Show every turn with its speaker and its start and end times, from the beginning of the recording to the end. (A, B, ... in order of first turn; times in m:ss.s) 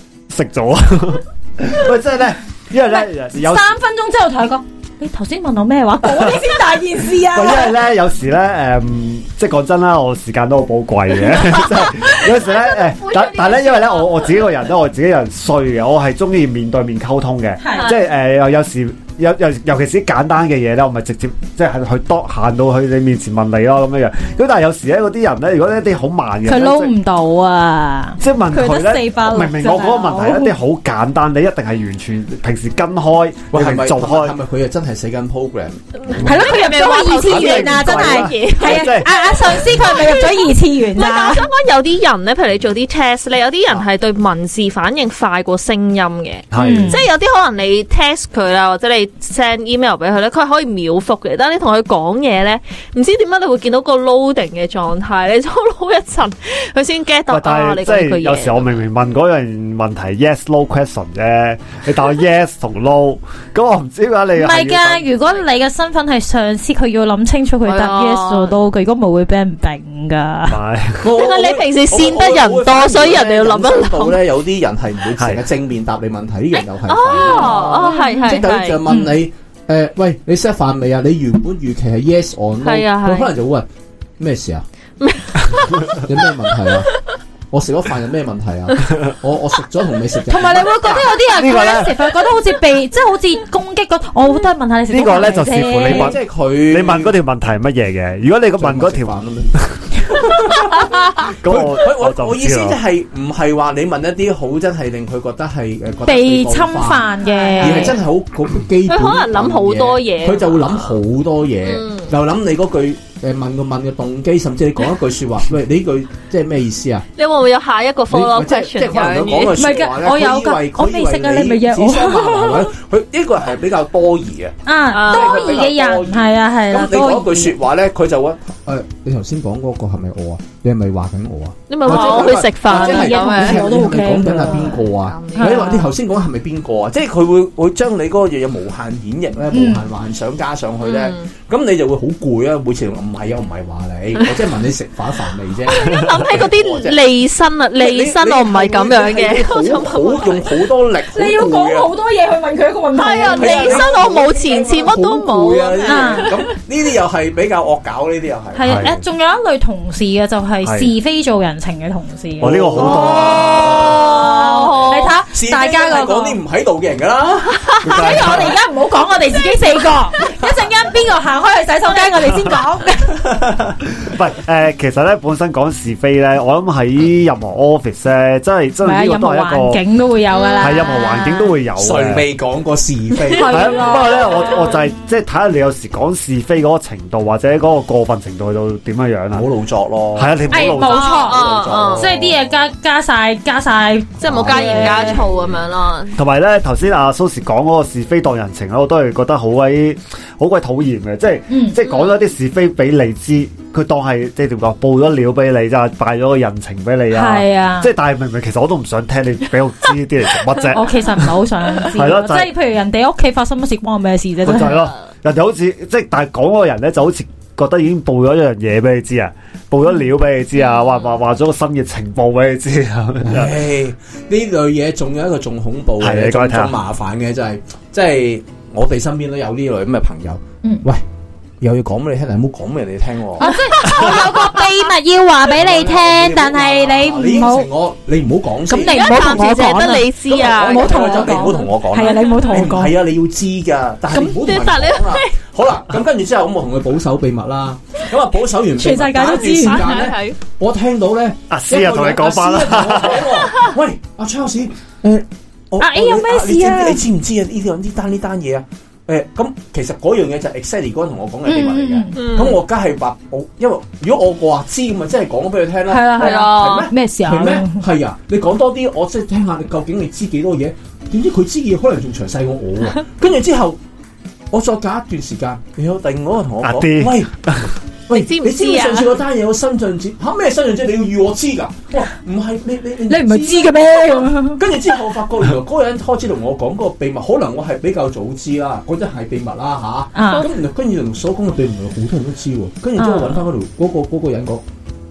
0:00.3-0:03.6 A
0:02.9-0:07.8 B
0:06.0-0:06.6 A
0:07.3-0:26.9 A
0:11.2-0:14.2 B
0:13.2-0:13.9 C
0:17.6-0:17.9 B
0:17.7-0:18.0 C
0:26.4-0:30.5 B
0:28.2-0:34.3 A
0:33.5-0:36.4 D
0:36.0-0:58.8 C
0:36.2-0:41.5 B
0:37.3-0:39.7 A
0:46.5-0:47.0 A
0:46.6-0:47.0 B
0:57.3-1:05.0 A
1:04.4-1:10.6 B
1:07.6-1:08.6 C
1:10.5-1:11.1 A
1:11.0-1:23.7 D
1:11.0-1:14.2 C
1:16.8-1:18.8 C
1:17.1-1:19.2 B
1:22.6-1:23.3 C
1:24.2-1:24.6 D
1:25.0-1:27.2 C
1:25.9-1:26.9 D
1:27.5-1:31.2 D
1:30.3-1:36.2 B
1:31.3-1:32.1 A
1:34.9-1:39.7 A
1:35.8-1:37.2 D
1:38.6-1:39.6 D
1:40.1-1:40.9 D
1:41.3-1:42.8 A
1:41.4-1:57.0 D
1:46.0-1:48.0 B
1:47.2-1:48.0 C
1:48.9-1:51.0 C
1:51.6-1:52.1 C
1:57.2-1:59.6 C
1:58.1-2:27.0 D
1:59.6-2:02.7 B
2:04.6-2:07.5 B
2:04.9-2:05.6 C
2:11.7-2:15.6 C
2:11.8-2:14.8 B
2:15.4-2:15.9 B
2:19.5-2:19.9 B
2:20.8-2:21.3 C
2:25.6-2:30.5 C
2:27.8-2:31.9 D
2:31.1-2:34.9 B
2:32.9-2:36.5 C
2:33.3-2:38.9 D
2:35.8-2:36.3 B
2:38.5-2:46.4 B
2:38.6-2:39.0 A
2:40.6-2:40.9 A
2:42.4-2:43.6 A
2:42.4-2:44.3 D
2:42.8-2:45.2 C
2:45.3-2:48.5 D
2:47.8-2:48.5 A
2:47.9-2:53.4 B
2:53.9-2:59.8 A
2:58.8-3:01.2 B
3:00.3-3:01.5 C
3:00.6-3:02.2 A
3:01.8-3:04.0 D
3:03.3-3:04.7 B
3:03.5-3:09.5 A
3:09.3-3:10.6 D
3:10.1-3:12.3 A
3:10.5-3:11.4 B
3:10.7-3:12.1 C
3:11.3-3:12.2 D
3:12.0-3:15.2 B
3:14.2-3:16.2 C
3:14.3-3:15.6 D
3:16.1-3:31.3 A
3:21.5-3:21.8 B
3:21.8-3:22.1 C
3:27.1-3:27.9 B
3:30.7-3:34.9 B
3:31.9-3:32.5 A
3:34.4-3:43.6 A
3:40.7-3:41.0 C
3:43.2-3:51.0 D
3:46.0-3:46.7 A
3:51.6-3:54.2 D
3:53.4-3:57.7 B
3:53.5-3:54.4 C
3:55.5-3:59.5 D
3:58.7-4:02.9 B
3:58.8-4:02.2 C
4:00.2-4:33.8 D
4:04.1-4:05.4 C
4:08.7-4:09.9 B
4:09.2-4:10.4 C
4:11.5-4:13.4 A
4:15.8-4:17.0 B
4:21.4-4:22.2 B
4:22.2-4:22.6 C
4:25.9-4:27.8 B
4:26.2-4:26.9 C
4:34.5-4:37.3 D
4:36.6-4:37.7 A
4:38.1-4:54.6 D
4:38.1-4:39.1 C
4:43.1-4:44.7 B
4:50.1-4:50.5 B
4:53.0-4:53.5 B